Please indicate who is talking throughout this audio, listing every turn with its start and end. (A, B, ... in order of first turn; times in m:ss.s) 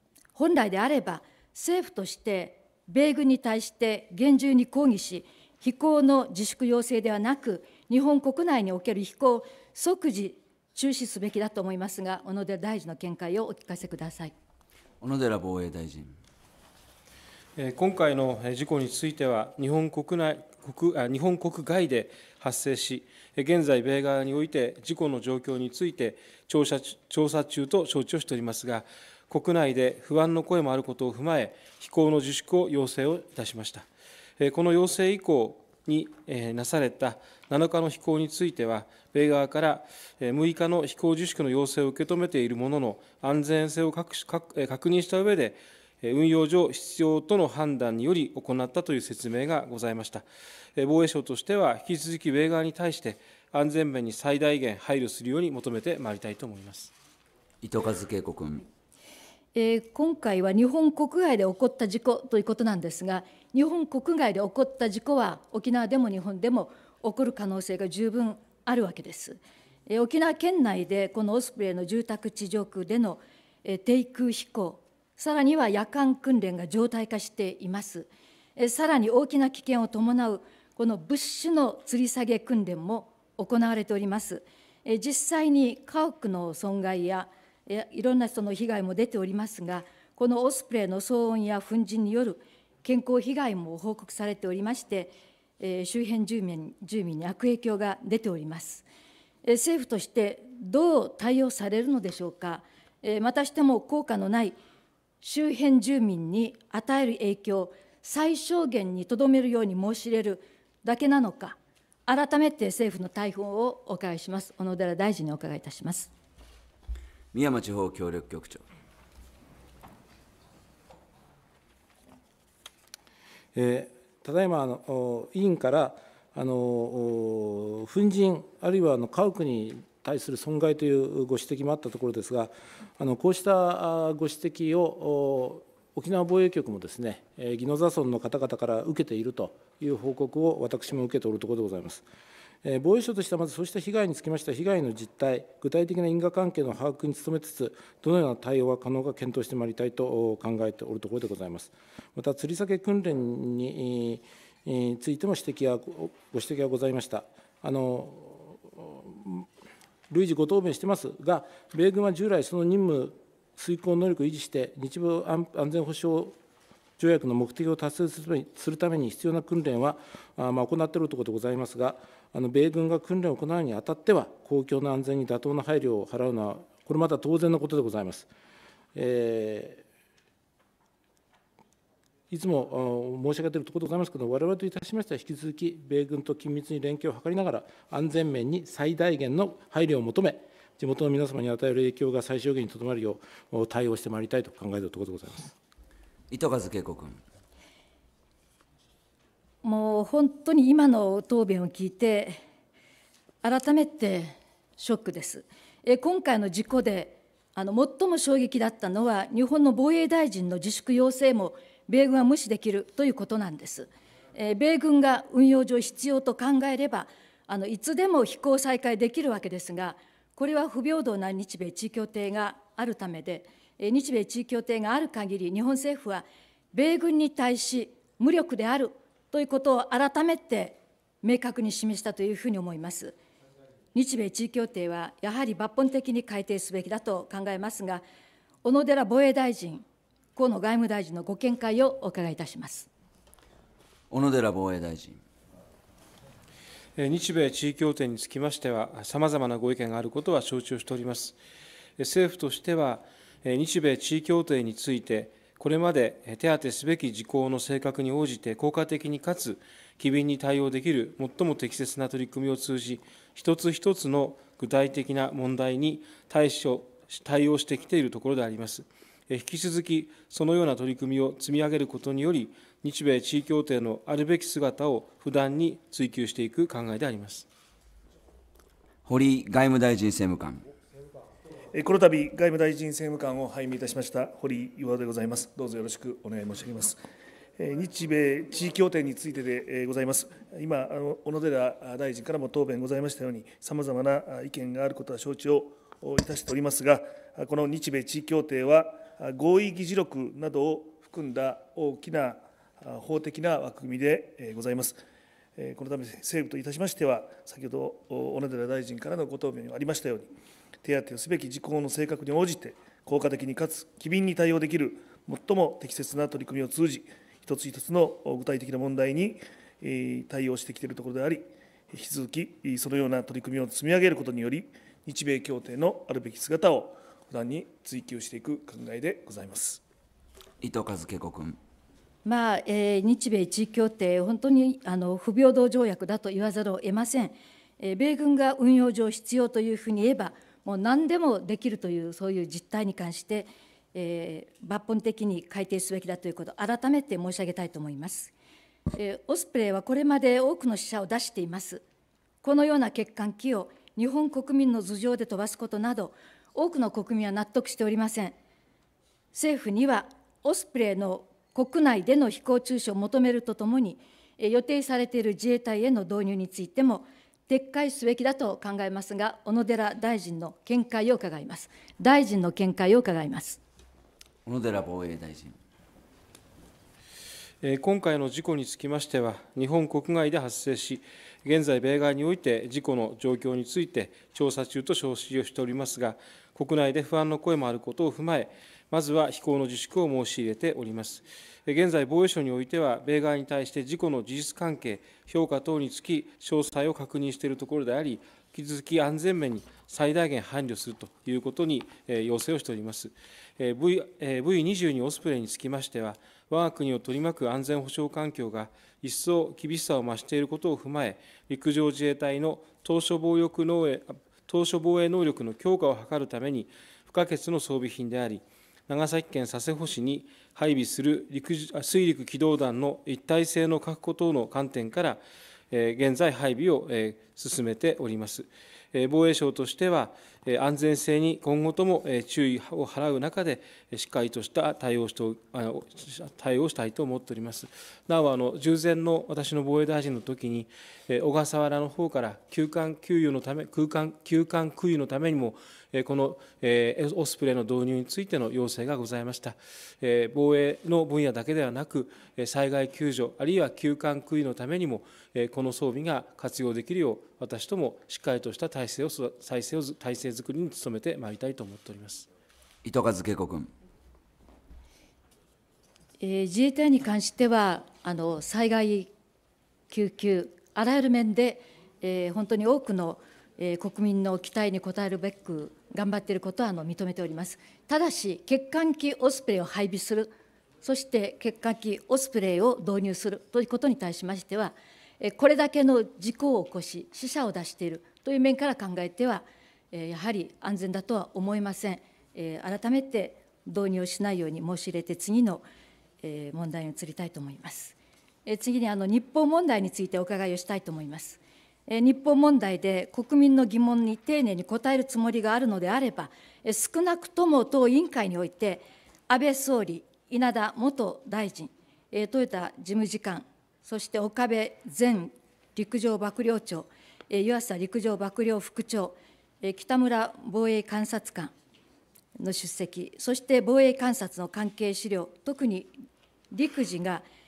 0:00.4-0:14.3 A
0:15.0-0:16.2 B
0:17.6-0:33.9 C
0:34.4-0:50.2 C
0:50.8-0:56.9 C
0:57.6-0:58.6 B
0:59.6-1:38.8 A
1:39.4-1:44.6 A
1:45.2-1:56.1 A
1:57.3-1:58.6 B
2:03.6-2:22.0 D
2:22.6-2:39.5 D
2:40.1-2:46.4 D
2:47.0-2:58.3 D
2:59.0-2:59.8 D
3:02.3-3:15.5 D
3:16.3-3:17.2 B
3:19.6-3:22.4 A
3:23.4-3:53.2 A
3:54.0-3:58.0 A
3:58.6-3:59.8 A
4:00.4-4:02.9 A
4:04.1-4:05.2 B
4:07.0-4:11.4 C
4:12.0-4:37.5 C
4:39.1-4:40.6 B
4:41.7-4:47.0 E
4:47.6-5:05.0 E
5:05.6-5:10.3 E
5:10.8-5:29.8 E
5:30.6-5:31.6 B
5:32.2-5:48.3 A
5:48.9-5:51.8 A
5:52.4-5:58.4 A
5:59.3-6:13.6 A
6:14.4-6:15.6 B
6:17.6-7:42.3 C
7:42.8-7:43.7 B
7:46.2-7:49.1 A
7:49.9-8:15.6 A
8:16.2-8:41.5 A
8:42.4-8:45.9 A
8:46.5-8:47.2 A